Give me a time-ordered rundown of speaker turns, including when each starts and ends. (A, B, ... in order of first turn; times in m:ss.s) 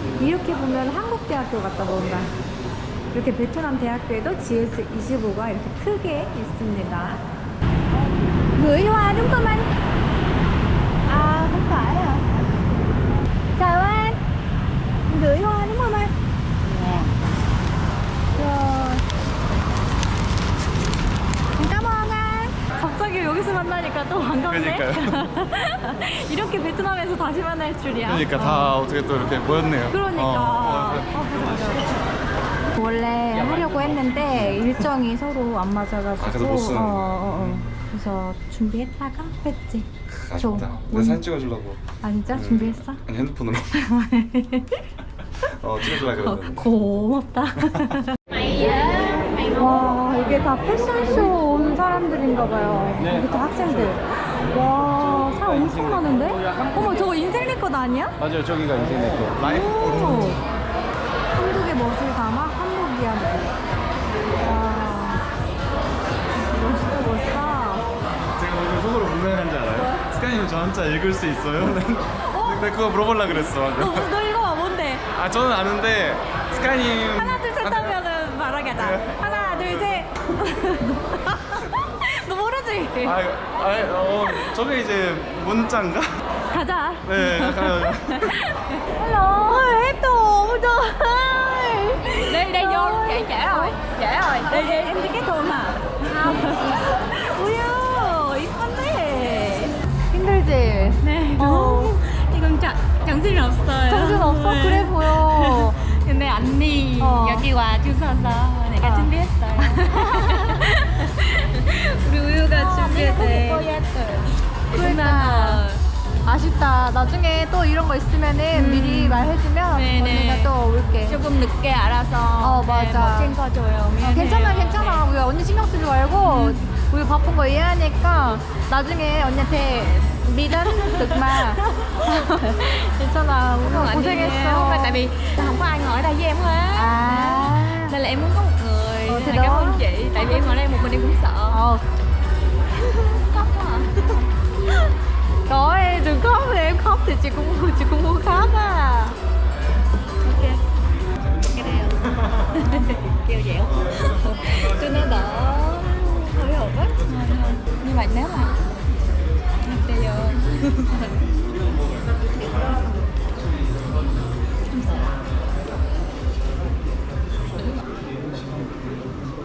0:00.2-0:02.3 A
0:03.1-0:07.2 A
0:08.6-0:09.7 A
0:11.1-0:12.2 A
0:13.6-0:14.2 A
0:15.1-0:16.1 A
0:18.4-0:19.0 A
0:21.6-0:28.8 A
0:24.5-0:25.2 B
0:28.0-0:31.2 B
0:29.9-0:31.9 A
0:32.8-0:41.2 A
0:36.2-0:37.7 B
0:40.1-0:41.8 B
0:42.0-0:43.0 A
0:42.3-0:43.8 B
0:43.7-0:44.7 A
0:45.6-0:46.7 B
0:45.8-0:48.1 A
0:48.6-0:49.1 C
0:49.5-0:58.2 A
0:55.2-0:56.9 B
0:58.2-1:00.4 B
0:59.4-1:00.4 A
1:01.4-1:03.5 A
1:04.4-1:05.2 A
1:06.4-1:07.8 A
1:08.4-1:14.1 B
1:09.7-1:10.1 A
1:12.2-1:12.7 A
1:13.2-1:15.0 A
1:15.2-1:18.0 B
1:17.2-1:23.2 A
1:18.8-1:20.0 B
1:23.0-1:26.1 B
1:26.5-1:33.8 A
1:27.1-1:28.3 B
1:32.2-1:35.2 C
1:34.4-1:41.9 A
1:36.0-1:36.7 C
1:41.0-1:55.8 C
1:43.9-1:45.8 A
1:47.0-1:47.5 A
1:48.8-1:49.1 A
1:49.6-1:50.7 A
1:52.4-1:53.7 A
1:54.7-1:55.6 A
1:56.2-2:01.2 A
1:58.5-2:00.5 C
2:01.1-2:05.1 C
2:02.4-2:03.4 A
2:04.0-2:15.0 A
2:06.2-2:06.6 C
2:10.7-2:11.7 C
2:13.6-2:21.6 C
2:16.7-2:18.0 A
2:19.1-2:20.6 A
2:21.5-2:21.8 A
2:22.9-2:24.3 C
2:25.5-2:29.2 A
2:30.2-2:30.6 C
2:31.5-2:32.0 C
2:32.5-2:33.8 C
2:33.9-2:36.9 A
2:37.1-2:38.6 C
2:39.6-2:41.1 C
2:44.7-2:45.1 C